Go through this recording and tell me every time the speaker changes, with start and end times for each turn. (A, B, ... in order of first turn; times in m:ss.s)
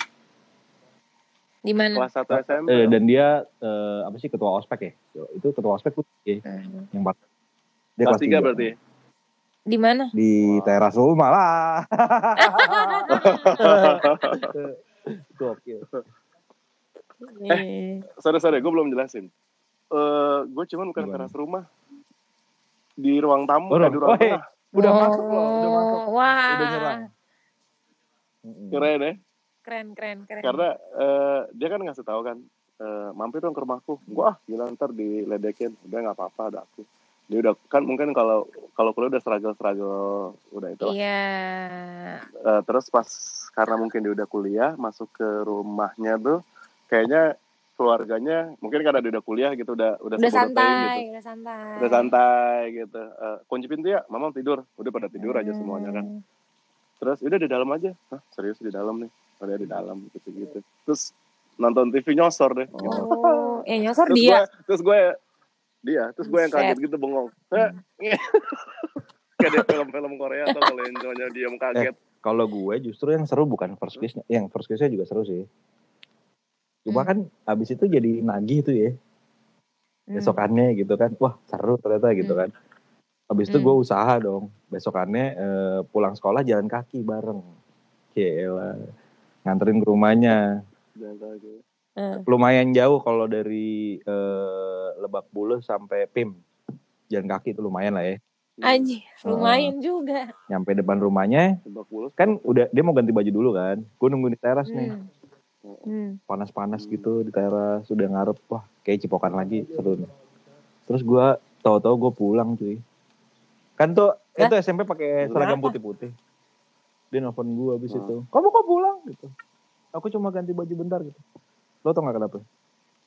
0:01.7-0:02.0 A
0:02.0-0:03.0 B
0:02.3-0:07.2 C
0:06.4-0:06.9 A
0:08.0-0:08.7 C
0:08.1-0:08.7 B
0:09.7-0:10.1 A
0:10.1-0:15.9 C
0:10.4-0:10.7 B
0:12.4-0:13.8 A
0:13.1-0:14.5 B
0:17.2-0:18.0 A
0:18.2-0:19.3 B
0:19.9-0:21.6 B
0:21.0-0:21.3 C
0:23.0-0:24.4 B
0:23.7-0:27.0 C
0:24.8-0:27.0 A
0:28.4-0:28.9 C
0:28.7-0:29.2 B
0:29.6-0:30.6 A
0:30.4-0:40.9 B
0:40.8-0:42.2 A
0:42.4-0:46.4 B
0:46.9-0:47.2 B
0:47.8-0:51.0 B
0:50.2-0:52.1 A
0:51.8-0:56.1 B
0:55.2-0:56.2 A
0:57.0-1:03.5 B
1:02.8-1:04.4 A
1:04.1-1:05.2 B
1:05.8-1:11.9 B
1:06.2-1:06.8 A
1:11.7-1:15.4 C
1:16.8-1:18.9 C
1:20.1-1:20.4 A
1:20.2-1:22.5 C
1:22.2-1:22.5 A
1:23.3-1:27.4 C
1:23.5-1:23.8 A
1:28.1-1:28.8 C
1:29.4-1:30.4 C
1:31.0-1:31.6 B
1:32.0-1:32.2 A
1:32.3-1:36.4 C
1:37.1-1:38.2 C
1:38.6-1:38.9 B
1:38.6-1:40.3 A
1:39.2-1:39.7 C
1:40.5-1:41.5 C
1:41.6-1:42.5 B
1:42.2-1:44.9 C
1:44.7-1:45.1 A
1:45.8-1:46.2 A
1:46.3-1:50.1 C
1:46.8-1:47.0 B
1:50.9-1:52.8 C
1:53.8-1:56.1 C
1:55.2-1:55.5 B
1:55.4-1:55.7 A
1:57.1-1:59.3 C
1:59.9-2:01.2 C
2:01.8-2:02.4 C